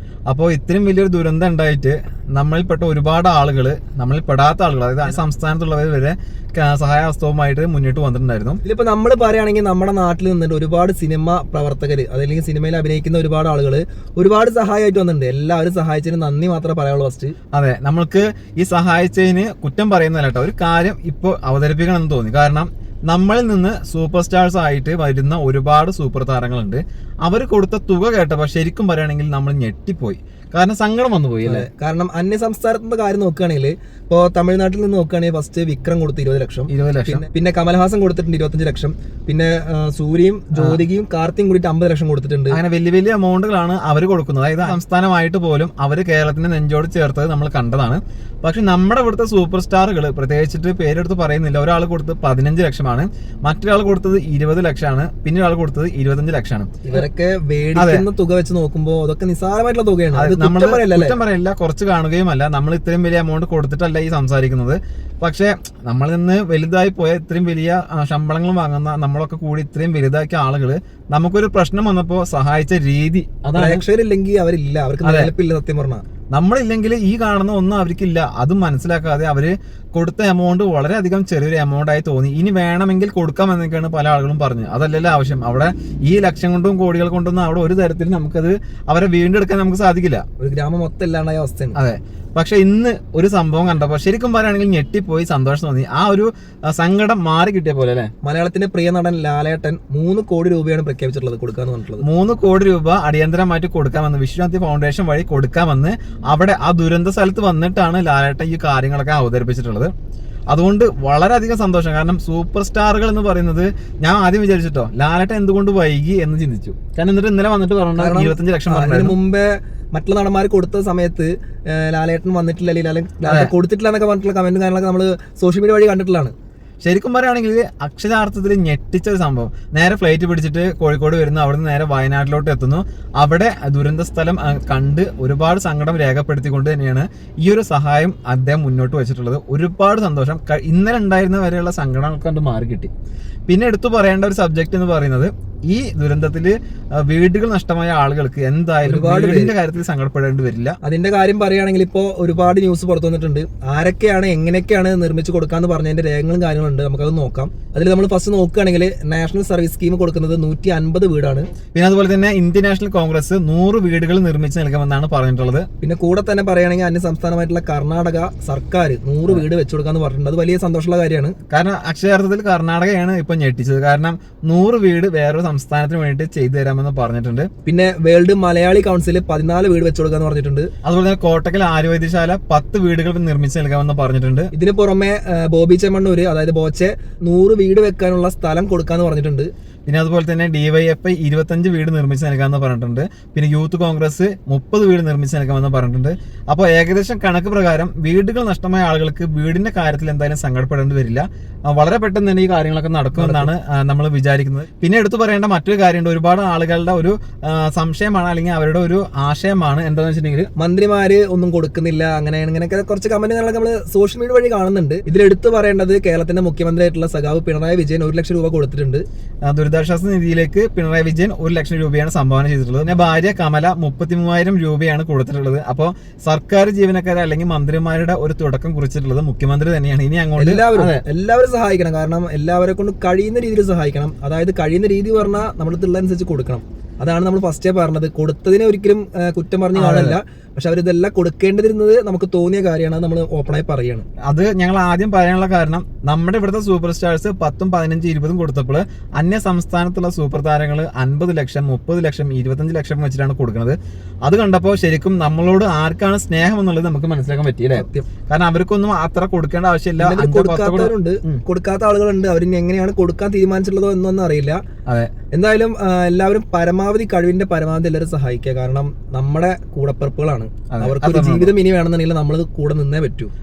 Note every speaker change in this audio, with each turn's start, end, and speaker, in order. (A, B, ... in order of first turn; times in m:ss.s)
0:00.3-0:08.6 A
0:08.6-0:17.3 B
0:17.5-0:31.7 A
0:31.4-0:42.6 B
0:36.7-0:37.2 A
0:40.5-0:40.8 A
0:42.5-0:56.8 A
0:56.8-1:01.2 B
0:57.8-0:58.0 A
1:00.1-1:13.8 A
1:13.5-1:16.0 B
1:15.0-1:15.3 A
1:16.3-1:30.2 A
1:30.4-1:31.8 B
1:31.7-1:38.1 A
1:38.2-1:42.0 B
1:42.0-1:49.9 A
1:50.5-1:59.1 A
1:58.0-2:06.3 B
2:03.2-2:03.5 A
2:06.8-2:22.9 A
2:23.5-2:30.8 A
2:28.8-2:29.5 B
2:30.8-2:41.5 B
2:41.7-2:45.7 A
2:45.8-2:51.4 B
2:51.5-2:57.5 A
2:57.6-3:00.7 B
3:00.8-3:04.5 A
3:04.5-3:09.5 B
3:09.9-3:30.5 A
3:23.1-3:23.5 B
3:30.6-3:39.0 B
3:39.4-3:51.0 A
3:50.4-4:04.0 B
3:59.7-4:00.2 A
4:04.3-4:21.4 A
4:17.7-4:18.1 B
4:20.0-4:24.6 B
4:24.9-4:25.1 A
4:25.3-4:33.3 B
4:30.7-4:31.5 A